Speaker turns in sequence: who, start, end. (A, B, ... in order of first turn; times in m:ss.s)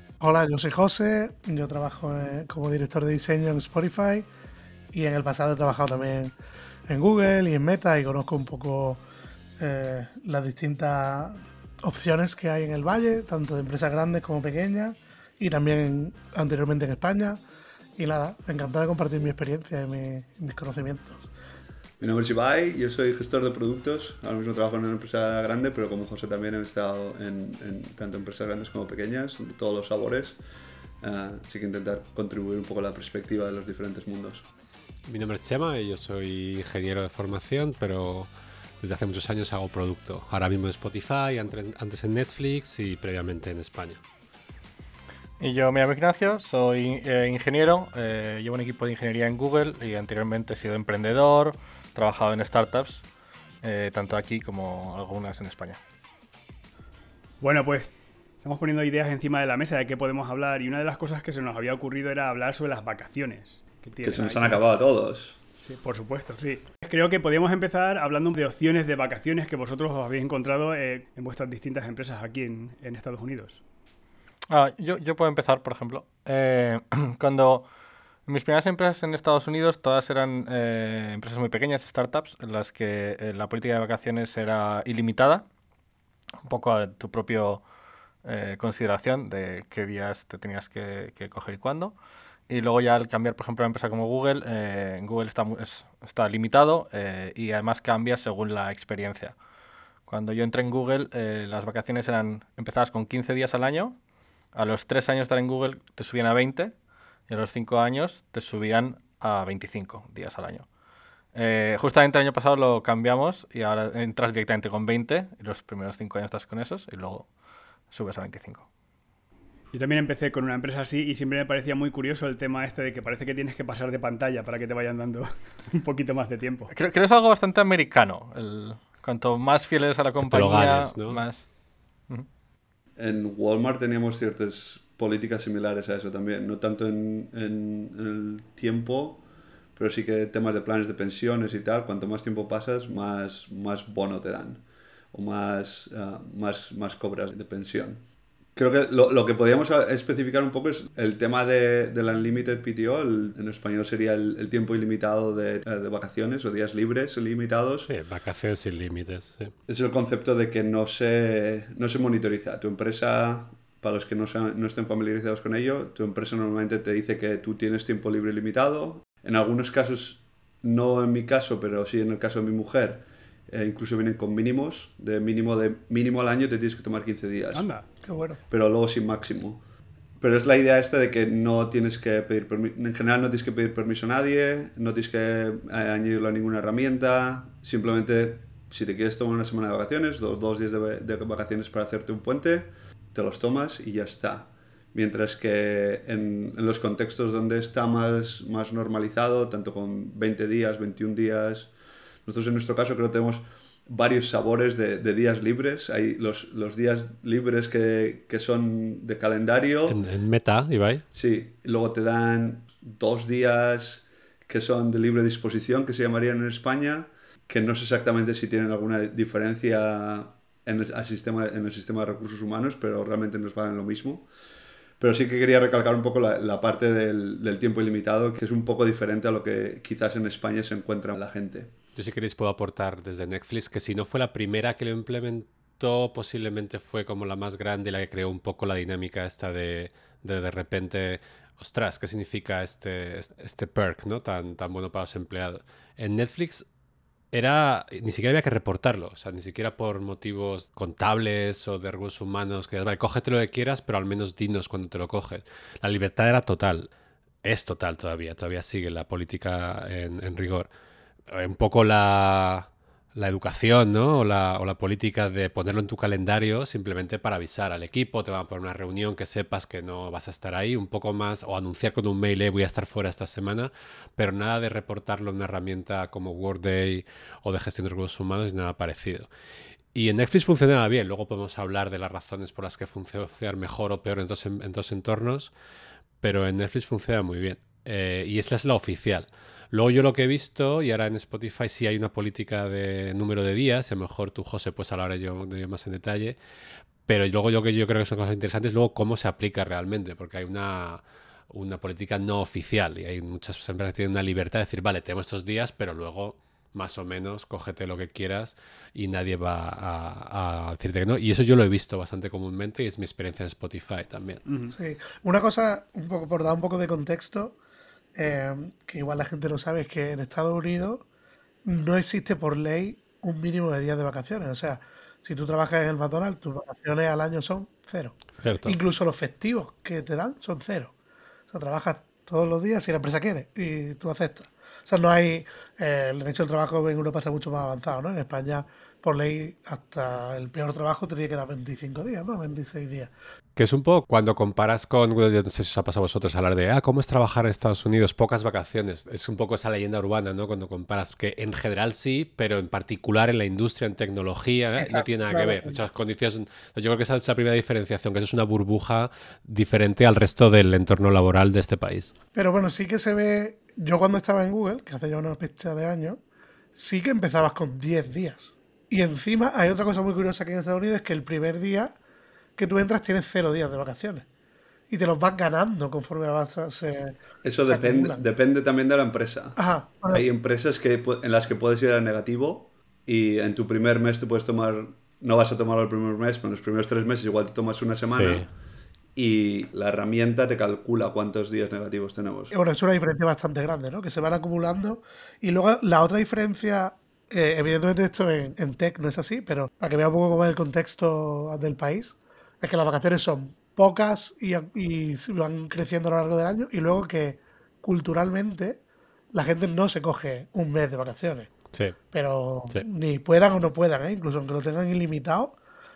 0:00.2-0:04.3 A
0:04.9-0:06.3 A
0:06.9-0:09.0 A
0:09.6-0:17.4 A
0:18.0-0:21.3 A
0:22.0-0:30.4 B
0:31.0-0:34.4 B
0:35.0-0:38.3 C
0:38.8-0:44.0 C
0:45.4-0:53.0 D
0:53.6-0:55.8 D
0:57.4-1:04.6 E
1:04.0-1:05.4 B
1:05.6-1:13.6 E
1:14.5-1:17.6 D
1:18.2-1:25.4 D
1:26.4-1:27.6 D
1:28.2-1:31.9 D
1:32.5-1:39.3 D
1:40.0-1:44.0 D
1:44.5-1:46.7 D
1:47.3-1:50.6 D
1:51.3-1:57.3 D
1:57.9-1:58.6 D
1:59.7-2:06.7 E
2:06.7-2:11.4 D
2:10.2-2:11.2 C
2:13.0-2:19.2 B
2:19.8-2:28.0 B
2:28.6-2:37.9 B
2:37.9-2:39.5 C
2:39.7-2:57.7 B
2:57.5-2:57.8 E
2:58.0-2:58.4 A
2:58.5-2:59.6 B
3:00.2-3:21.7 B
3:22.2-3:30.0 B
3:29.8-3:31.0 C
3:31.1-3:44.3 B
3:45.0-3:51.7 B
3:52.0-4:06.6 C
4:07.3-4:16.9 C
4:17.4-4:20.7 C
4:21.3-4:39.3 C
4:39.9-4:45.5 C
4:46.2-4:56.4 C
4:57.1-5:14.4 C
5:14.4-5:14.7 E
5:14.7-5:17.6 A
5:18.1-5:21.0 A
5:21.6-5:30.9 A
5:28.4-5:28.8 C
5:31.5-5:43.1 A
5:43.6-6:02.1 C
5:54.8-5:55.8 A
6:02.3-6:06.2 A
6:06.7-6:11.9 A
6:12.6-6:14.2 A
6:14.9-6:18.2 A
6:17.4-6:19.6 B
6:19.6-6:20.2 A
6:20.1-6:28.5 B
6:28.0-6:28.5 C
6:29.2-6:32.5 B
6:32.5-6:48.8 A
6:49.3-6:51.5 A
6:52.1-6:55.6 A